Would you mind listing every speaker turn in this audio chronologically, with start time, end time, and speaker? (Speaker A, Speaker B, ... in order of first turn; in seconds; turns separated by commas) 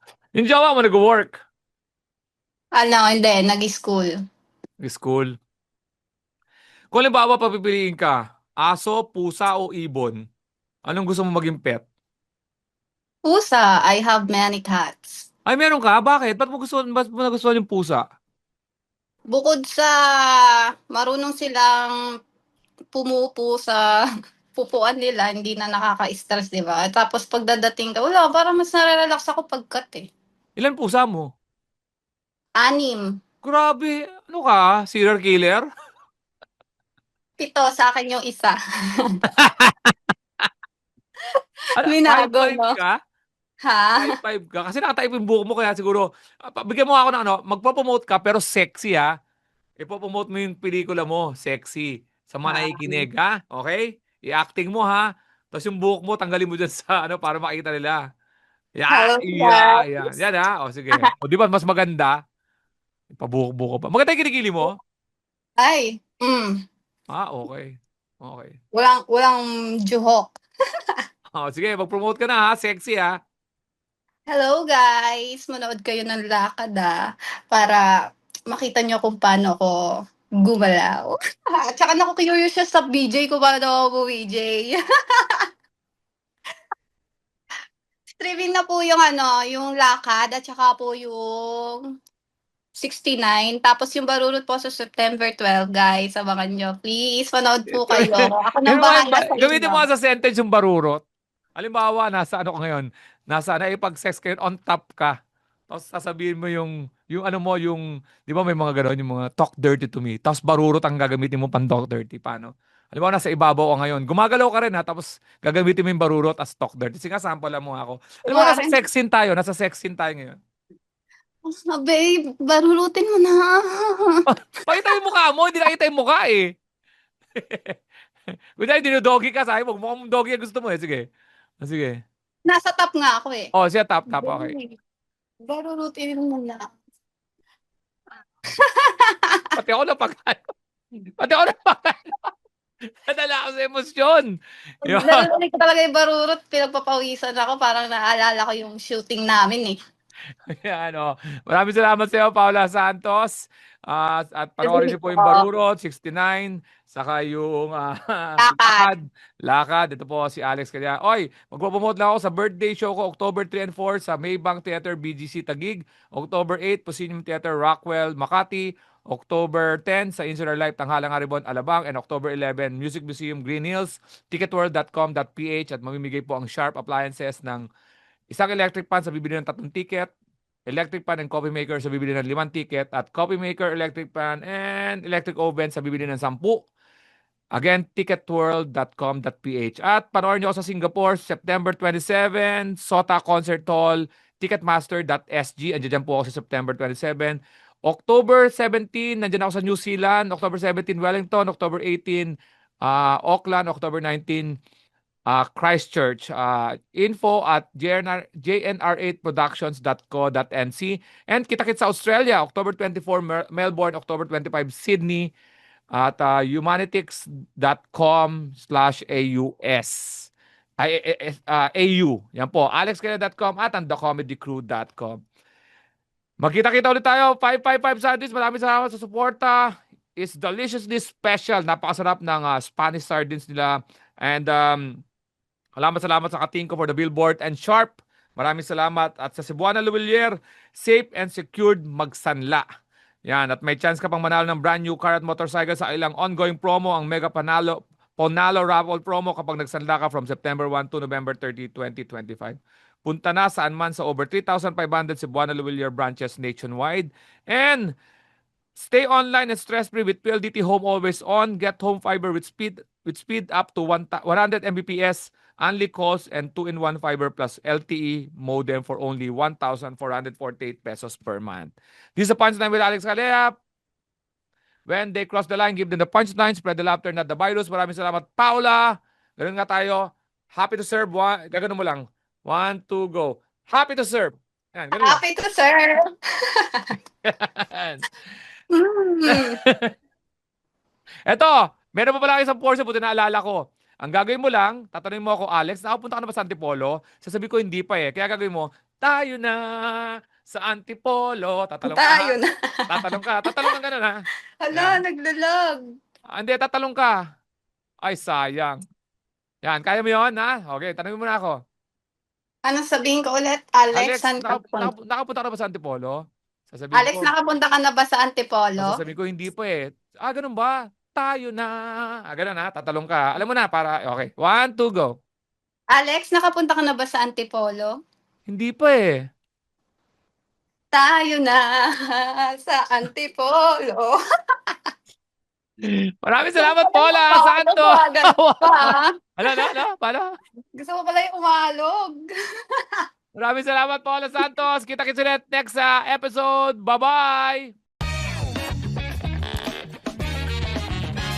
Speaker A: 0.3-1.4, Speaker B: 2.8-4.1, Speaker A: 4.8-5.3, Speaker A: 6.9-10.2, Speaker A: 10.9-11.8, Speaker B: 13.3-15.2, Speaker A: 15.5-18.0, Speaker B: 19.3-20.0, Speaker B: 20.9-22.0, Speaker B: 22.9-23.8, Speaker B: 24.6-30.1, Speaker A: 30.6-31.3, Speaker B: 32.6-33.0, Speaker A: 33.4-35.6, Speaker B: 37.4-38.6, Speaker A: 39.4-39.9, Speaker A: 41.8-43.0, Speaker B: 41.9-42.8, Speaker B: 43.7-44.1, Speaker A: 44.0-49.1, Speaker A: 49.8-58.0, Speaker B: 52.5-53.1, Speaker A: 58.8-62.1, Speaker B: 58.9-60.2, Speaker A: 63.2-64.7, Speaker B: 65.6-66.5, Speaker A: 67.1-68.5, Speaker B: 68.8-70.3, Speaker A: 71.3-73.1, Speaker B: 74.3-77.0, Speaker B: 77.5-77.8, Speaker B: 78.5-79.8, Speaker B: 80.4-85.5, Speaker B: 88.2-91.8, Speaker B: 92.8-99.8, Speaker A: 97.7-101.0, Speaker A: 101.6-105.2, Speaker A: 105.7-120.4, Speaker B: 118.3-118.7, Speaker B: 121.7-124.2, Speaker A: 124.3-126.5, Speaker A: 127.4-127.8, Speaker A: 128.6-131.1, Speaker A: 131.6-132.0, Speaker B: 132.5-133.5, Speaker A: 133.6-134.5, Speaker B: 134.1-134.7, Speaker B: 135.5-136.7, Speaker B: 138.7-139.5, Speaker A: 139.6-140.4, Speaker A: 141.2-142.1, Speaker A: 143.1-144.3, Speaker A: 144.9-145.2, Speaker B: 144.9-149.8, Speaker A: 150.5-153.3, Speaker A: 153.9-177.7, Speaker B: 154.6-155.4, Speaker B: 158.4-158.9, Speaker A: 178.3-180.1, Speaker A: 180.7-186.6, Speaker A: 187.6-204.6, Speaker A: 205.3-215.3, Speaker A: 215.9-220.3, Speaker A: 220.8-225.2, Speaker A: 226.4-229.6, Speaker A: 230.2-235.0, Speaker A: 235.8-242.7, Speaker A: 243.3-257.9, Speaker A: 258.8-273.5, Speaker A: 274.9-285.2, Speaker B: 285.0-286.0, Speaker A: 287.2-288.1, Speaker B: 288.8-289.6, Speaker A: 289.3-289.9, Speaker A: 291.3-302.3, Speaker B: 301.9-303.7, Speaker A: 302.9-304.2, Speaker B: 304.6-305.8, Speaker A: 304.7-305.0, Speaker A: 306.4-307.1, Speaker A: 308.0-308.8, Speaker A: 309.6-311.6, Speaker B: 312.7-314.9, Speaker A: 313.9-316.2, Speaker A: 316.7-317.3, Speaker B: 316.9-318.9, Speaker A: 318.8-321.8, Speaker A: 322.3-325.1, Speaker B: 325.9-327.9, Speaker A: 328.5-329.2, Speaker B: 330.9-334.1, Speaker A: 335.8-340.3, Speaker B: 336.6-339.8, Speaker B: 340.8-342.3, Speaker A: 343.4-347.7